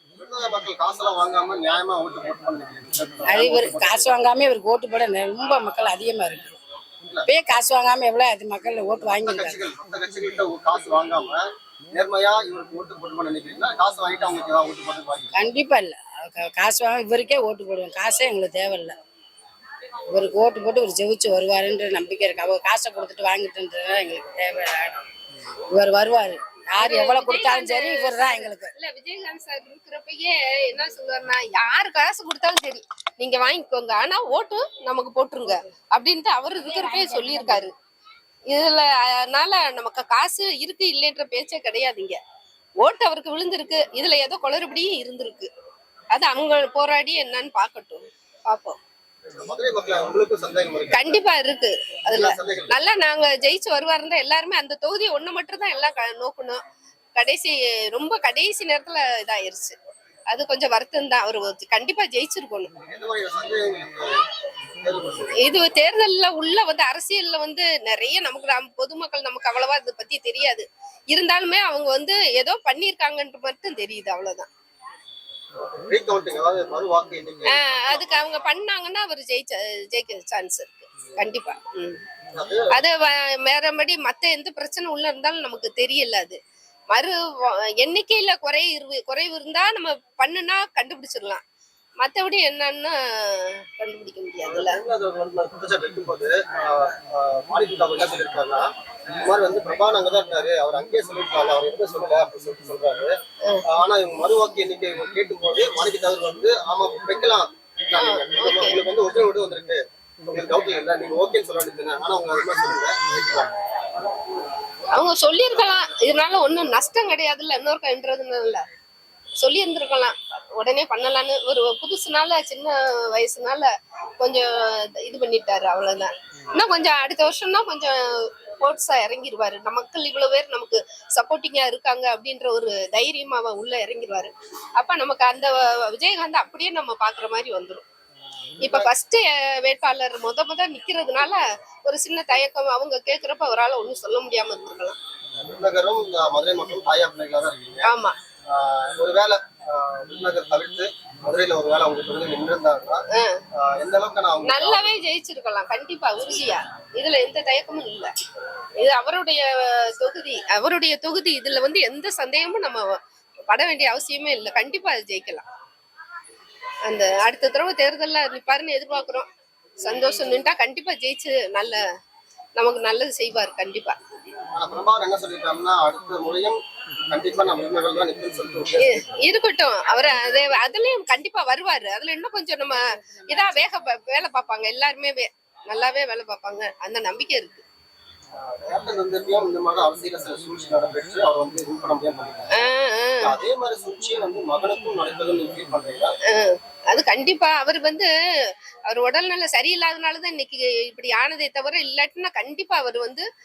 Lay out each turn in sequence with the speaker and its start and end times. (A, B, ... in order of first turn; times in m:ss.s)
0:00.2-0:04.1 A
0:03.2-0:06.6 B
0:07.2-0:09.6 B
0:09.2-0:15.3 A
0:15.3-0:18.9 B
0:20.1-0:25.0 B
0:25.8-0:28.7 B
0:26.8-0:37.7 C
0:36.8-0:37.6 B
0:38.5-0:42.2 C
0:42.8-0:45.5 C
0:46.1-0:48.8 C
0:49.3-0:51.1 A
0:50.9-0:56.6 C
0:52.1-0:52.7 A
0:57.2-0:59.8 C
1:00.3-1:02.7 C
1:02.8-1:04.2 A
1:04.8-1:05.4 A
1:05.4-1:14.5 C
1:15.6-1:18.2 A
1:17.5-1:22.0 C
1:22.3-1:22.8 A
1:22.7-1:26.4 C
1:27.8-1:31.4 C
1:32.0-1:34.8 C
1:34.4-1:43.1 A
1:43.7-1:53.5 A
1:48.0-1:48.8 C
1:54.9-1:58.6 C
1:59.4-2:08.0 C
2:08.6-2:17.8 C
2:18.6-2:18.9 A
2:18.6-2:25.0 C
2:25.4-2:27.9 A
2:27.8-2:28.1 C
2:28.5-2:33.0 A
2:33.6-2:34.9 A
2:34.5-2:38.1 C
2:38.8-2:42.8 C
2:43.5-2:45.4 C
2:46.9-2:49.2 C
2:49.8-2:51.8 C
2:52.6-2:54.0 C
2:54.5-2:56.6 A
2:57.1-2:59.1 A
2:58.8-3:07.6 C
3:08.4-3:12.5 A
3:12.6-3:13.3 C
3:13.2-3:16.1 A
3:16.3-3:18.1 C
3:18.9-3:23.2 C